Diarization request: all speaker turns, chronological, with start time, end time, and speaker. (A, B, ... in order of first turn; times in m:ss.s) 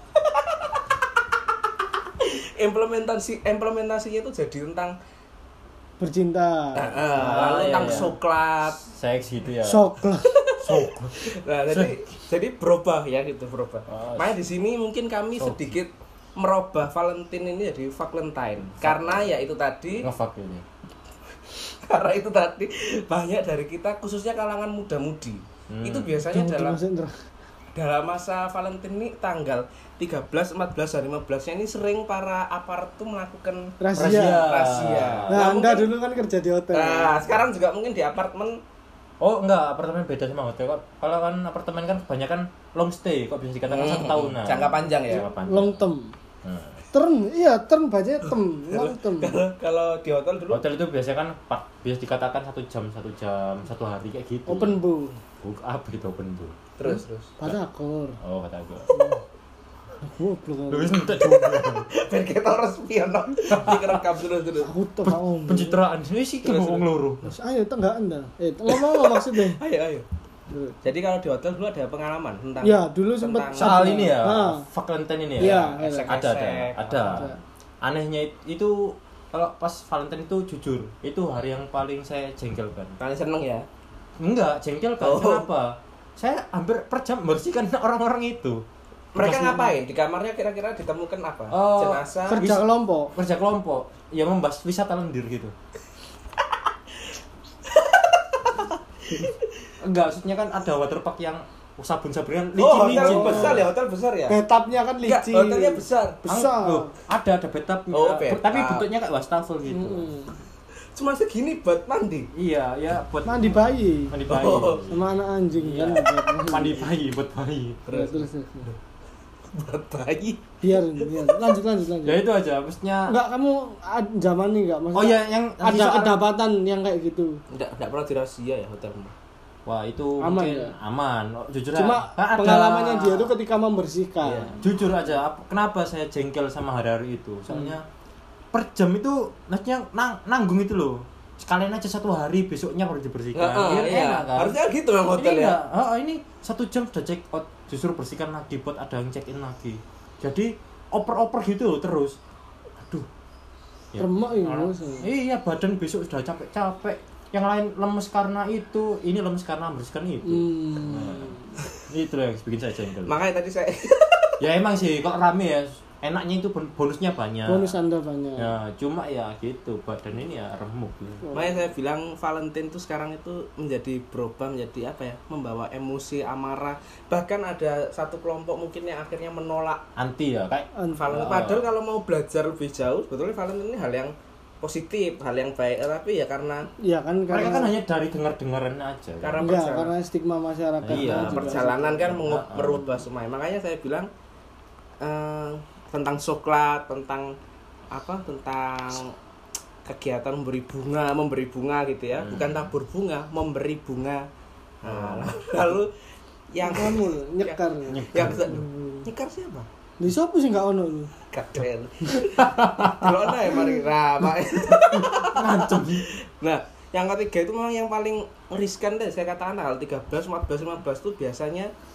0:02.2-0:05.0 A
0:06.0-0:08.1 B
0:06.8-0:08.8 A
0:07.1-0:08.1 C
0:08.8-0:09.9 C
0:09.6-0:10.3 B
0:10.3-0:20.1 A
0:10.6-0:12.0 C
0:13.9-0:14.4 C
0:15.3-0:15.8 C
0:18.6-0:19.4 C
0:19.9-0:20.6 C
0:21.8-0:26.8 A
0:25.7-0:26.2 C
0:26.3-0:27.1 B
0:27.7-0:35.9 A
0:33.8-0:34.5 B
0:33.9-0:35.4 C
0:35.3-0:37.2 B
0:36.7-0:38.6 A
0:39.2-0:45.9 C
0:43.6-0:45.3 A
0:45.1-0:46.1 B
0:46.4-0:46.8 C
0:46.9-0:49.4 B
0:48.7-0:50.6 A
0:50.5-0:54.8 C
0:54.5-0:55.2 B
0:55.4-0:56.6 C
0:56.8-0:57.3 A
0:56.9-0:58.2 B
0:58.2-0:59.1 C
0:58.9-0:59.2 B
1:00.0-1:01.2 B
1:00.7-1:01.9 C
1:01.4-1:04.7 A
1:03.5-1:04.0 C
1:04.6-1:05.8 B
1:05.0-1:07.3 C
1:06.4-1:06.8 A
1:07.2-1:09.6 B
1:08.7-1:10.0 A
1:10.5-1:10.8 B
1:10.8-1:13.8 A
1:12.6-1:14.7 B
1:13.5-1:17.3 C
1:15.4-1:16.2 B
1:15.4-1:17.2 A
1:17.0-1:17.4 B
1:17.8-1:23.0 C
1:23.0-1:23.7 A
1:24.2-1:28.6 C
1:25.0-1:25.4 A
1:29.1-1:32.4 A
1:29.2-1:29.7 C
1:31.5-1:35.5 C
1:32.3-1:33.1 B
1:37.7-1:39.4 A
1:39.8-1:43.6 C
1:42.6-1:44.4 A
1:42.6-1:43.6 B
1:44.3-1:46.9 B
1:45.0-1:46.2 A
1:46.3-1:50.1 C
1:47.9-1:48.9 A
1:49.7-1:50.4 B
1:50.9-1:52.3 A
1:52.3-1:55.0 C
1:53.2-1:54.2 B
1:54.3-1:54.9 A
1:54.9-1:56.9 B
1:55.5-1:57.8 C
1:57.9-1:58.3 A
1:57.9-1:58.7 B
1:59.5-2:01.6 A
2:00.6-2:02.2 B
2:02.0-2:03.1 C
2:03.1-2:07.4 B
2:04.9-2:06.2 C
2:07.5-2:09.1 A
2:09.6-2:13.3 C
2:10.2-2:10.8 B
2:11.8-2:14.6 B
2:14.2-2:14.7 A
2:14.6-2:17.8 C
2:17.5-2:17.8 B
2:18.5-2:24.6 C
2:23.3-2:25.6 A
2:25.1-2:32.2 C
2:33.9-2:43.2 C
2:34.0-2:35.1 B
2:40.2-2:41.5 B
2:43.1-2:44.4 A
2:44.4-2:47.7 C
2:47.4-2:48.5 B
2:48.4-2:51.2 C
2:51.2-2:51.7 B
2:51.3-2:59.8 A
3:00.0-3:01.6 C
3:00.8-3:01.2 B
3:00.9-3:06.7 A
3:06.8-3:07.7 B
3:07.3-3:09.4 C
3:09.2-3:09.9 A
3:09.4-3:12.1 B
3:10.8-3:13.0 C
3:10.9-3:14.1 A
3:15.0-3:17.3 A
3:17.9-3:19.1 A
3:19.8-3:24.3 A
3:22.2-3:22.7 C
3:24.8-3:25.9 A
3:24.8-3:25.3 C
3:26.5-3:27.6 A
3:26.6-3:29.1 B
3:27.9-3:28.6 C
3:28.1-3:29.7 A
3:30.0-3:31.1 B
3:31.3-3:41.7 A
3:32.4-3:32.9 C
3:33.5-3:33.8 B
3:34.9-3:36.0 C